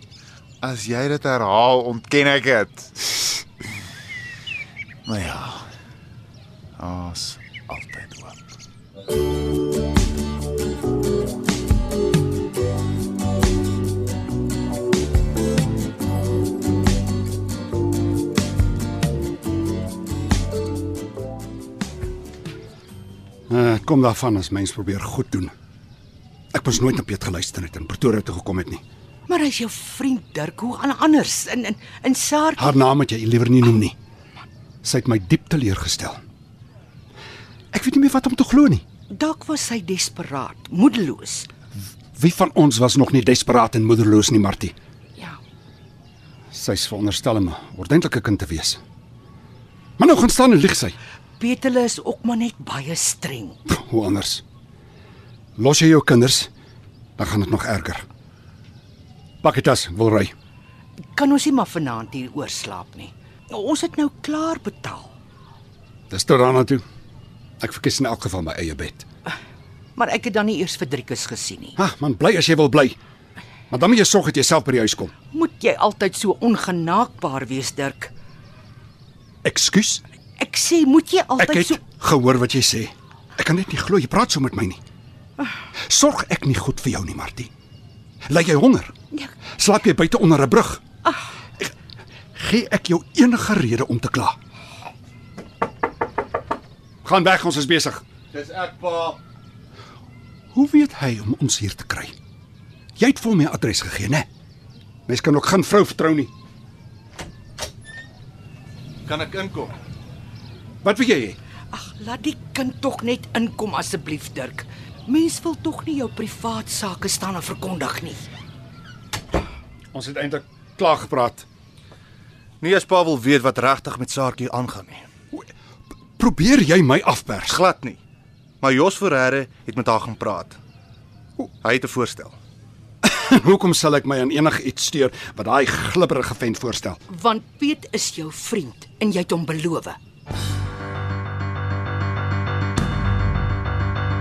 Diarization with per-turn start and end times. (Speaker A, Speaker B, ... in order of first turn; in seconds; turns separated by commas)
Speaker A: 0.6-3.4, Speaker A: 5.0-5.7, Speaker A: 6.8-8.4, Speaker B: 23.5-25.5, Speaker B: 26.5-28.8, Speaker C: 29.3-32.6, Speaker B: 32.6-33.9, Speaker B: 34.8-36.2, Speaker B: 37.7-38.8, Speaker C: 39.1-41.5, Speaker B: 42.2-44.7, Speaker B: 46.5-48.8, Speaker B: 50.0-51.0, Speaker C: 51.4-53.6, Speaker B: 53.7-54.4, Speaker B: 55.6-56.5, Speaker B: 57.2-58.0, Speaker B: 59.4-60.3, Speaker C: 61.1-65.1, Speaker B: 66.1-66.8, Speaker B: 67.6-69.0, Speaker C: 70.0-71.8, Speaker B: 71.8-73.0, Speaker B: 73.7-75.1, Speaker C: 75.3-78.1, Speaker B: 79.4-80.0, Speaker C: 80.4-81.8, Speaker B: 81.4-84.8, Speaker B: 85.9-87.5, Speaker B: 88.3-88.9, Speaker B: 89.6-90.8, Speaker B: 92.3-94.3, Speaker B: 97.0-98.0, Speaker D: 98.3-99.2, Speaker B: 100.5-102.1, Speaker B: 103.0-104.3, Speaker B: 105.1-106.3, Speaker D: 109.0-109.7, Speaker B: 110.8-111.4, Speaker C: 111.7-118.2, Speaker B: 119.9-121.5, Speaker D: 122.6-125.1, Speaker B: 126.2-127.6, Speaker D: 127.5-128.0, Speaker D: 128.6-130.6, Speaker D: 131.6-132.3, Speaker B: 133.0-137.0, Speaker C: 137.1-140.0